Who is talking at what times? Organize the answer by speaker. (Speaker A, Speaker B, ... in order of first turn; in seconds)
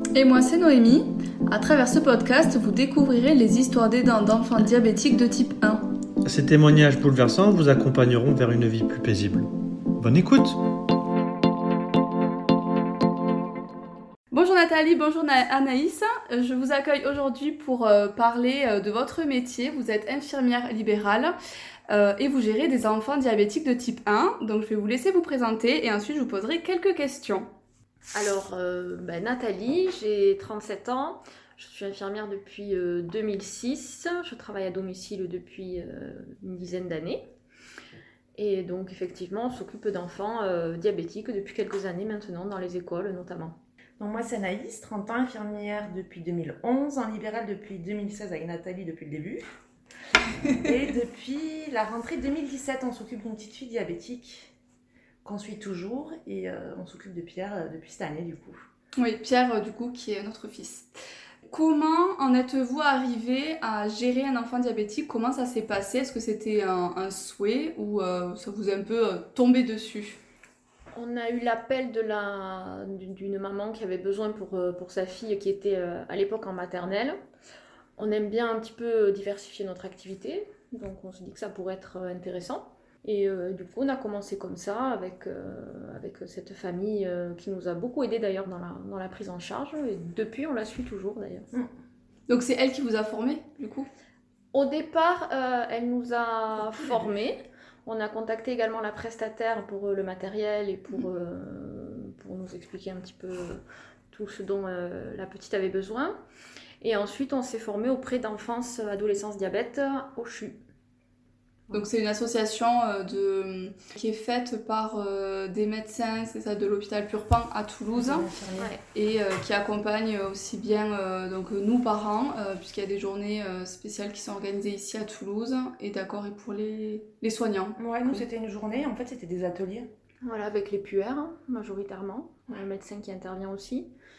Speaker A: 0.1-5.9, 14.3-21.3, 21.9-27.5, 59.0-60.9, 61.5-70.2, 92.3-93.9, 111.7-118.3, 118.9-128.2
Speaker B: 6.2-10.6
Speaker C: 28.1-37.2, 38.4-43.6, 70.9-77.2, 78.0-91.5, 94.5-106.1, 106.8-110.6, 130.2-133.9
Speaker D: 44.0-49.4, 50.6-54.5, 55.2-58.6, 118.0-118.7, 127.8-129.9